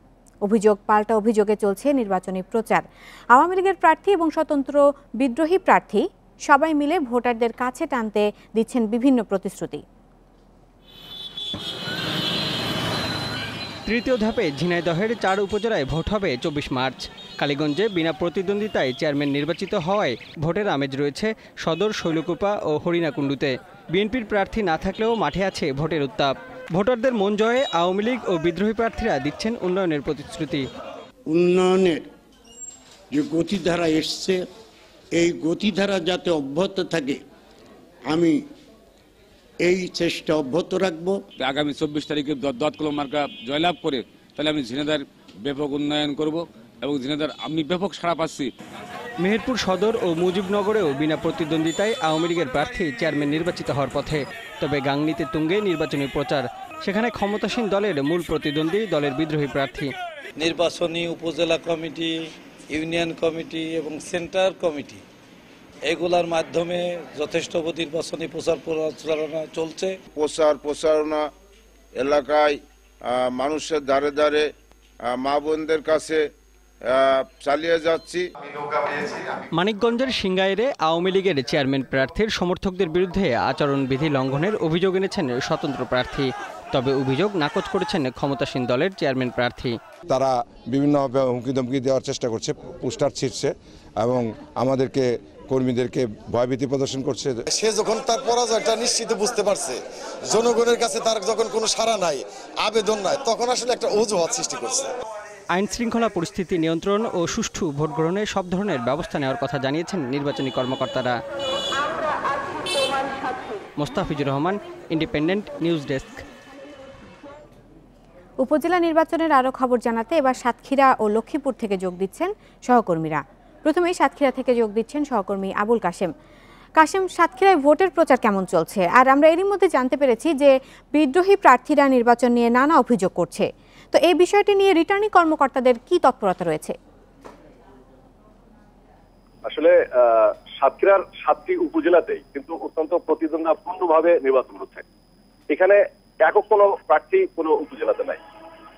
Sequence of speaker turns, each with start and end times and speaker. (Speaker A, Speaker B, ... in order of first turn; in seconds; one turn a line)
Speaker A: 0.5-9.8
Speaker B: 13.9-30.6
Speaker C: 31.3-32.1
Speaker C: 33.1-34.4
Speaker C: 35.2-37.2
Speaker C: 38.1-38.4
Speaker C: 39.6-41.2
Speaker D: 41.4-48.5
Speaker B: 49.2-59.9
Speaker E: 60.4-65.0
Speaker E: 65.8-70.0
Speaker F: 70.2-71.3
Speaker F: 72.0-74.5
Speaker F: 75.0-76.3
Speaker F: 76.8-78.3
Speaker G: 78.6-79.2
Speaker B: 79.5-89.8
Speaker G: 90.1-97.5
Speaker H: 97.6-99.7
Speaker H: 100.3-104.8
Speaker B: 105.5-111.2
Speaker B: 113.8-116.2
Speaker A: 118.4-126.1
Speaker A: 126.8-136.8
Speaker I: 139.5-144.8
Speaker I: 145.5-148.2